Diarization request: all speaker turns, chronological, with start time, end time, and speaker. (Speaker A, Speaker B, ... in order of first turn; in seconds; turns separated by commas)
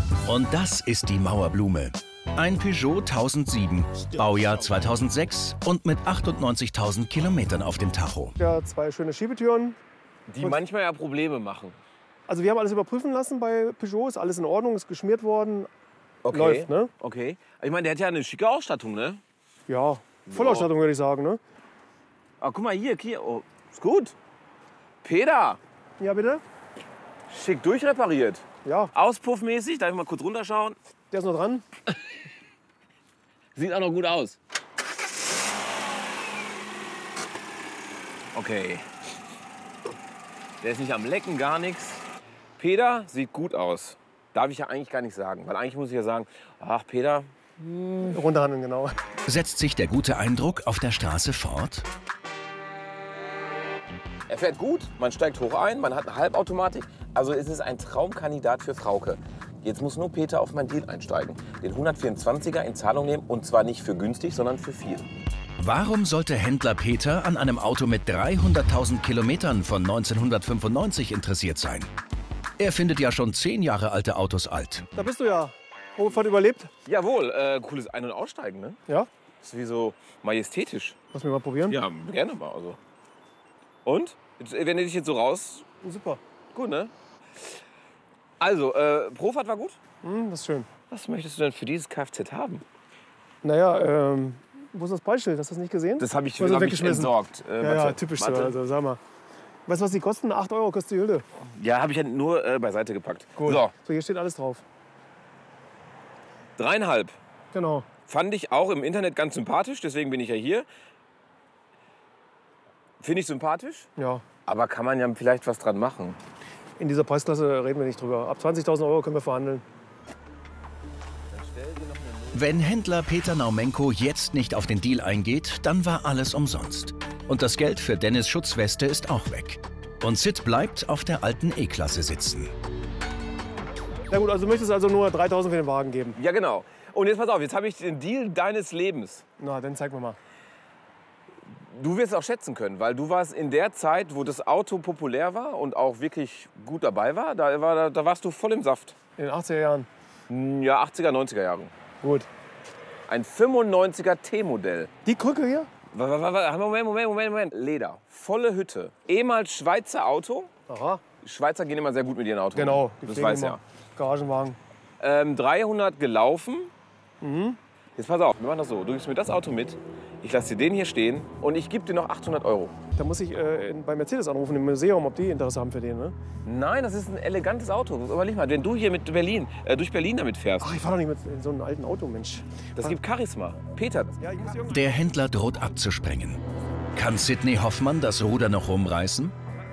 Speaker A: 0.3-8.4, Speaker B: 8.4-9.8, Speaker C: 10.3-11.8, Speaker B: 12.3-15.7, Speaker C: 16.2-19.2, Speaker B: 16.3-16.9, Speaker B: 19.7-21.4, Speaker C: 20.3-20.7, Speaker C: 22.4-24.1, Speaker C: 25.0-25.6, Speaker B: 26.0-26.4, Speaker C: 27.3-30.8, Speaker B: 28.6-28.9, Speaker B: 31.1-31.6, Speaker C: 33.6-34.4, Speaker C: 38.3-38.9, Speaker C: 40.6-42.0, Speaker C: 42.6-48.0, Speaker B: 48.0-49.0, Speaker A: 49.3-51.9, Speaker C: 54.3-65.1, Speaker A: 65.6-71.9, Speaker A: 72.6-74.9, Speaker B: 74.9-76.7, Speaker C: 76.9-78.8, Speaker C: 79.4-81.0, Speaker B: 81.1-81.8, Speaker C: 81.7-82.8, Speaker C: 83.8-85.7, Speaker B: 85.8-86.2, Speaker C: 86.5-86.9, Speaker C: 88.4-89.8, Speaker B: 90.0-90.7, Speaker C: 90.9-92.6, Speaker B: 93.4-99.0, Speaker C: 96.0-98.6, Speaker B: 99.7-101.2, Speaker C: 101.4-103.7, Speaker B: 103.4-104.6, Speaker C: 106.6-107.2, Speaker B: 107.5-107.9, Speaker C: 108.1-110.7, Speaker C: 113.0-113.9, Speaker B: 114.0-114.2, Speaker C: 114.5-116.2, Speaker B: 116.8-119.6, Speaker C: 121.3-122.7, Speaker A: 122.3-132.5, Speaker B: 134.1-136.2, Speaker C: 136.2-139.2, Speaker B: 139.4-140.2, Speaker C: 141.4-149.0, Speaker B: 149.2-149.9, Speaker C: 150.3-151.7, Speaker B: 152.0-152.3, Speaker C: 153.1-154.9, Speaker B: 155.1-155.7, Speaker C: 155.9-160.5, Speaker B: 160.7-161.0, Speaker C: 161.2-163.6, Speaker B: 162.6-164.6, Speaker C: 165.0-166.7, Speaker B: 167.2-167.6, Speaker C: 168.0-172.7, Speaker B: 173.0-176.2, Speaker C: 176.4-180.9, Speaker B: 180.6-183.0, Speaker C: 182.8-184.2, Speaker B: 184.2-184.9, Speaker A: 184.7-186.4, Speaker A: 187.0-189.3